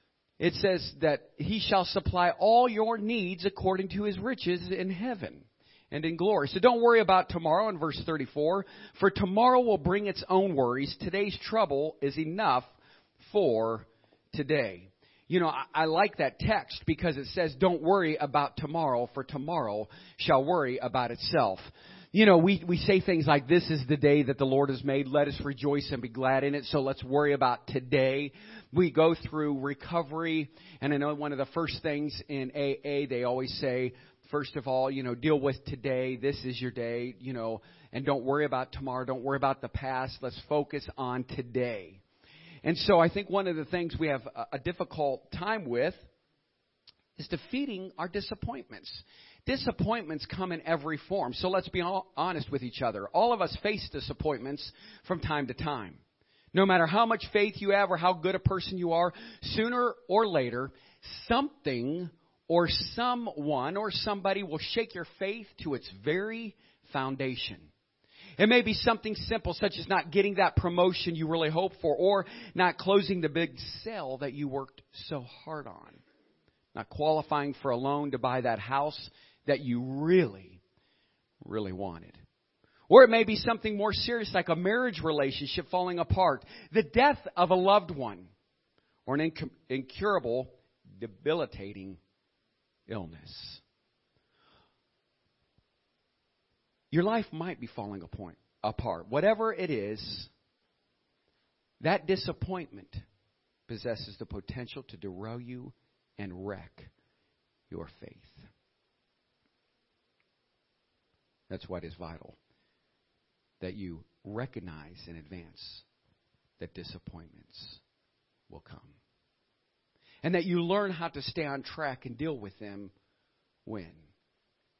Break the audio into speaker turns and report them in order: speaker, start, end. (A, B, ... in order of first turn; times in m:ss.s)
0:00.4-0:42.0 A
0:42.6-0:46.0 A
0:47.2-0:56.0 A
0:56.5-1:07.7 A
1:08.4-1:16.0 A
1:16.7-1:20.6 A
1:21.4-1:22.2 A
1:22.9-1:28.3 A
1:29.0-1:32.0 A
1:32.9-1:33.6 A
1:36.9-1:40.3 A
1:41.8-1:43.0 A
1:43.7-1:46.9 A
1:47.7-1:48.5 A
1:51.5-1:52.4 A
1:53.6-1:55.8 A
1:56.6-1:57.8 A
1:58.5-1:59.0 A
2:00.2-2:02.9 A
2:03.6-2:04.1 A